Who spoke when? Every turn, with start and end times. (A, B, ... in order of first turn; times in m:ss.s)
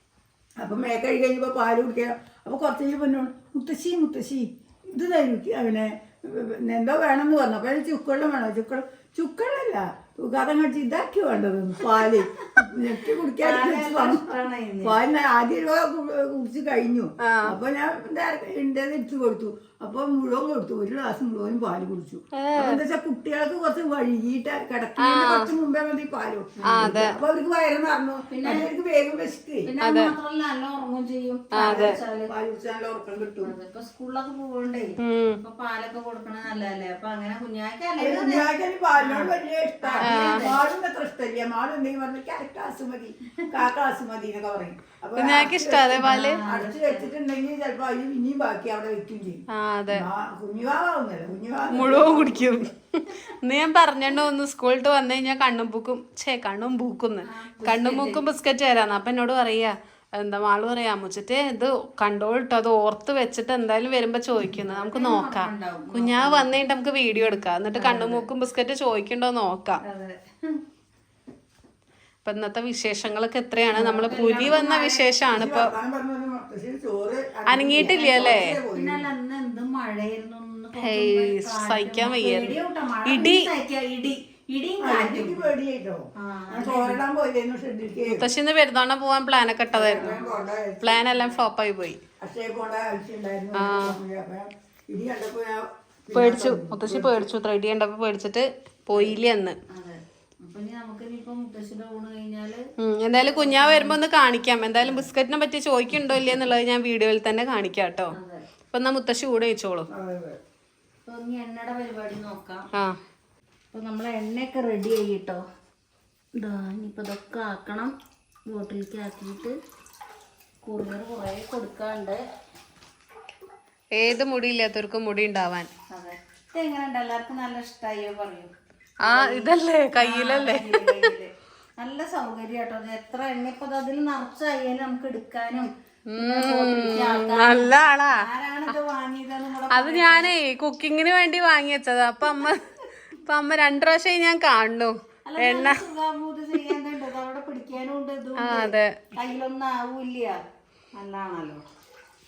0:00.6-0:29.7 A
0:12.0-0:12.7 B
0:13.4-0:15.0 B
0:17.2-0:17.5 C
0:22.4-0:22.8 C
0:25.0-0:25.5 C
0:26.6-0:26.9 B
0:26.7-0:27.2 C
0:28.3-0:28.7 B
0:29.7-0:32.3 B
0:29.8-0:30.1 C
0:31.5-0:32.0 C
0:31.6-0:33.5 A
0:33.4-0:38.5 B
0:35.0-0:35.4 C
0:38.0-0:52.7 A
0:39.0-0:40.6 B
0:40.1-0:40.5 C
0:45.2-0:46.4 C
0:46.0-0:47.1 B
0:49.5-0:50.1 C
0:51.7-1:09.8 C
0:57.2-0:58.2 B
1:04.6-1:06.6 B
1:07.8-1:08.3 B
1:09.8-1:10.6 B
1:12.2-1:15.7 C
1:13.7-1:15.1 B
1:15.3-1:19.1 A
1:17.5-1:18.6 C
1:17.8-1:25.5 B
1:20.8-1:23.5 C
1:24.8-1:28.3 A
1:26.2-1:27.0 B
1:28.1-1:30.2 C
1:29.7-1:31.1 A
1:29.9-1:30.4 B
1:30.8-1:32.0 C
1:31.2-1:31.4 B
1:32.2-1:37.2 A
1:33.6-1:34.0 C
1:36.1-1:39.6 C
1:38.9-1:39.2 B
1:39.7-1:42.6 B
1:42.8-1:48.1 C
1:43.2-1:44.0 B
1:44.8-1:45.1 B
1:48.1-1:48.4 B
1:48.7-1:49.9 C
1:49.9-1:50.4 A
1:51.1-1:52.6 B
1:53.7-1:55.4 B
1:56.4-1:57.9 B
1:58.5-1:59.6 B
2:00.6-2:02.2 B
2:04.0-2:05.7 C
2:05.9-2:08.5 B
2:09.0-2:20.3 B
2:09.0-2:11.1 C
2:16.1-2:18.2 C
2:19.7-2:25.8 C
2:25.3-2:30.4 B
2:28.4-2:29.0 C
2:30.9-2:31.6 B